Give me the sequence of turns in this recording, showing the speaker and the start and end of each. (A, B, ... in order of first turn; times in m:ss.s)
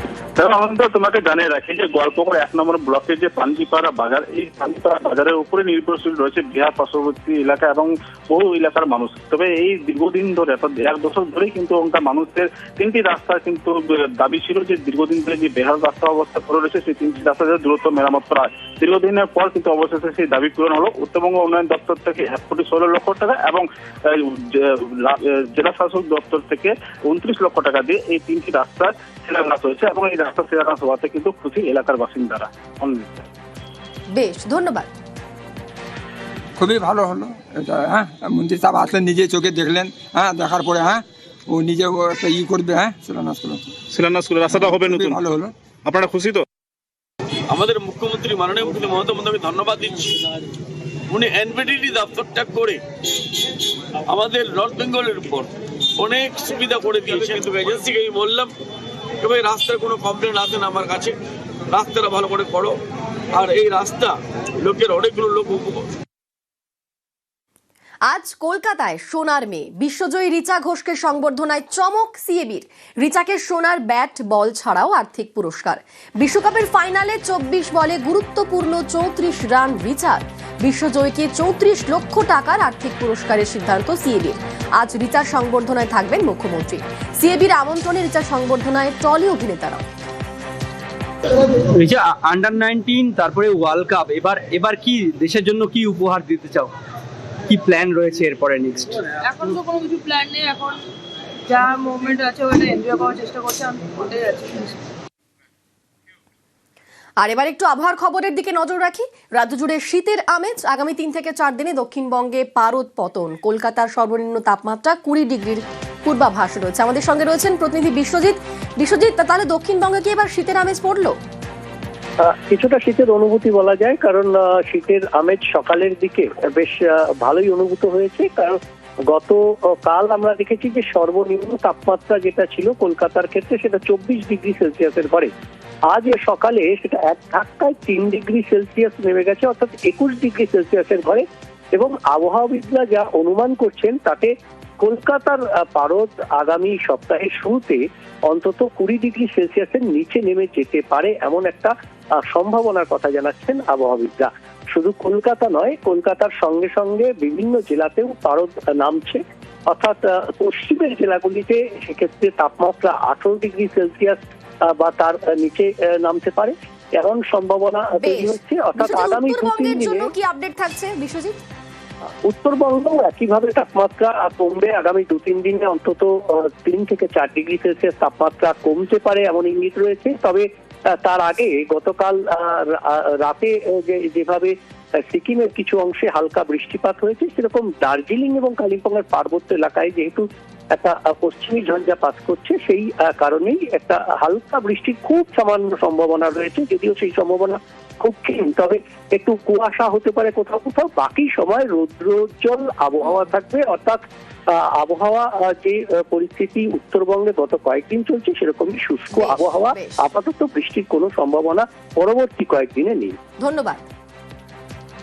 0:00.4-0:23.6 A
0:25.1-0:33.2 A
0:34.1-0:34.9 B
0:36.6-0:43.6 C
0:43.9-0:45.2 A
0:44.6-0:45.5 C
0:45.9-0:46.4 A
0:47.5-0:50.2 D
0:51.1-0:52.8 D
0:54.1-0:58.5 D
0:59.2-1:01.2 D
1:01.7-1:02.8 D
1:03.3-1:05.8 D
1:08.1-1:29.8 B
1:31.7-1:36.7 E
1:37.5-1:39.1 E
1:39.2-1:40.7 F
1:41.5-1:44.7 F
1:47.2-2:01.2 B
2:02.5-2:08.6 G
2:09.1-2:15.3 G
2:15.9-2:21.2 G
2:21.8-2:31.7 G
2:32.2-2:39.2 G
2:39.7-2:44.2 G
2:44.8-2:50.1 G
2:48.0-2:51.4 B
2:52.3-3:00.4 G
3:01.0-3:04.5 G
3:05.0-3:24.0 G
3:24.8-3:33.2 G
3:29.1-3:30.0 B
3:33.4-3:33.8 B